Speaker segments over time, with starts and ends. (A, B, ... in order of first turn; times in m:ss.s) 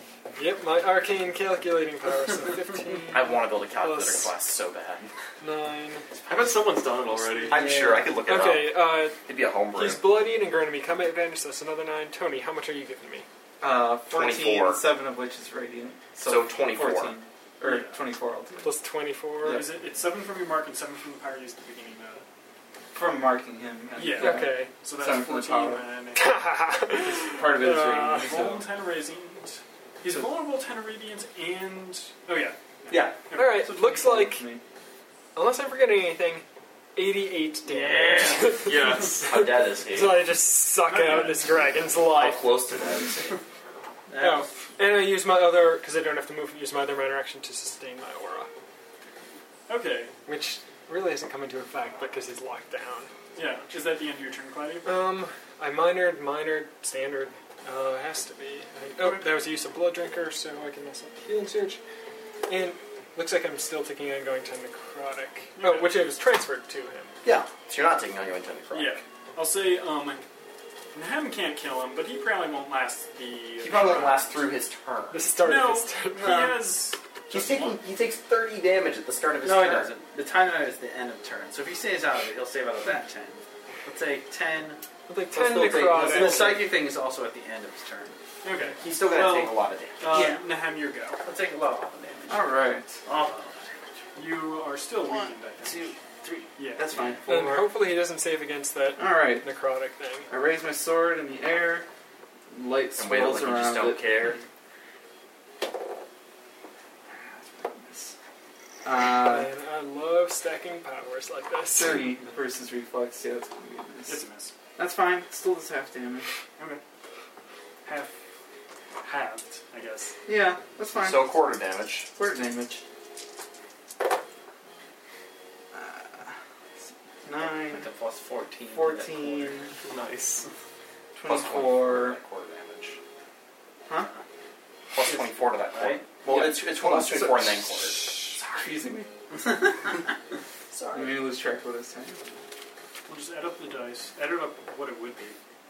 0:00.4-0:04.3 A
0:03.1-0:05.1 B
0:05.4-0:06.1 A
0:06.3-0:07.6 C
0:07.2-0:13.3 A
0:07.5-0:10.0 B
0:07.6-0:08.1 D
0:13.6-0:18.7 E
0:14.1-0:14.8 B
0:16.2-0:17.1 B
0:17.6-0:18.0 F
0:18.6-0:19.7 A
0:19.4-0:22.2 F
0:22.9-0:25.9 E
0:24.0-0:26.4 F
0:24.1-0:24.7 A
0:26.2-0:28.4 A
0:27.0-0:28.7 E
0:28.2-0:33.8 F
0:32.9-0:33.2 B
0:33.3-0:34.5 A
0:33.7-0:34.6 E
0:35.4-0:36.4 A
0:37.0-0:42.5 A
0:37.6-0:38.6 D
0:38.6-0:39.4 C
0:39.2-0:40.3 B
0:40.9-0:41.7 F
0:42.0-0:43.4 B
0:44.1-0:44.5 D
0:44.2-0:48.5 A
0:49.7-0:50.1 F
0:50.3-0:53.1 A
0:53.4-0:54.9 F
0:54.8-1:01.8 A
0:59.0-0:59.4 F
1:02.5-1:07.1 A
1:05.6-1:06.0 F
1:07.2-1:09.0 B
1:08.7-1:10.2 F
1:10.9-1:14.4 F
1:13.6-1:15.4 B
1:15.1-1:16.6 A
1:15.4-1:17.8 F
1:16.2-1:16.5 D
1:17.3-1:19.9 B
1:19.4-1:24.8 D
1:25.1-1:26.7 A
1:25.3-1:26.4 B
1:25.4-1:28.2 D
1:28.4-1:31.2 F
1:28.7-1:30.1 B
1:30.0-1:30.4 D
1:31.2-1:33.9 D
1:32.3-1:33.0 E
1:34.2-1:35.9 F
1:35.2-1:36.5 D
1:36.6-1:36.8 F
1:36.8-1:37.6 B
1:36.9-1:37.6 E
1:37.3-1:40.3 A
1:39.0-1:39.5 E
1:40.3-1:41.9 E
1:42.5-1:44.4 E
1:43.0-1:44.4 B
1:47.1-1:48.1 E
1:48.8-1:49.5 E
1:49.1-1:52.2 A
1:51.7-1:54.2 E
1:54.1-1:54.5 F
1:54.8-1:56.3 E
1:57.8-1:58.2 F
1:59.0-2:00.2 F
2:00.3-2:01.4 E
2:01.0-2:02.1 B
2:02.2-2:02.8 E
2:05.7-2:07.9 E
2:07.4-2:09.6 D
2:08.7-2:09.7 E
2:09.8-2:10.4 C
2:11.2-2:12.2 E
2:11.3-2:13.0 B
2:14.9-2:18.4 B
2:15.0-2:16.1 D
2:16.3-2:17.7 E
2:18.5-2:19.1 E
2:19.4-2:20.0 D
2:20.9-2:22.4 E
2:23.1-2:25.4 F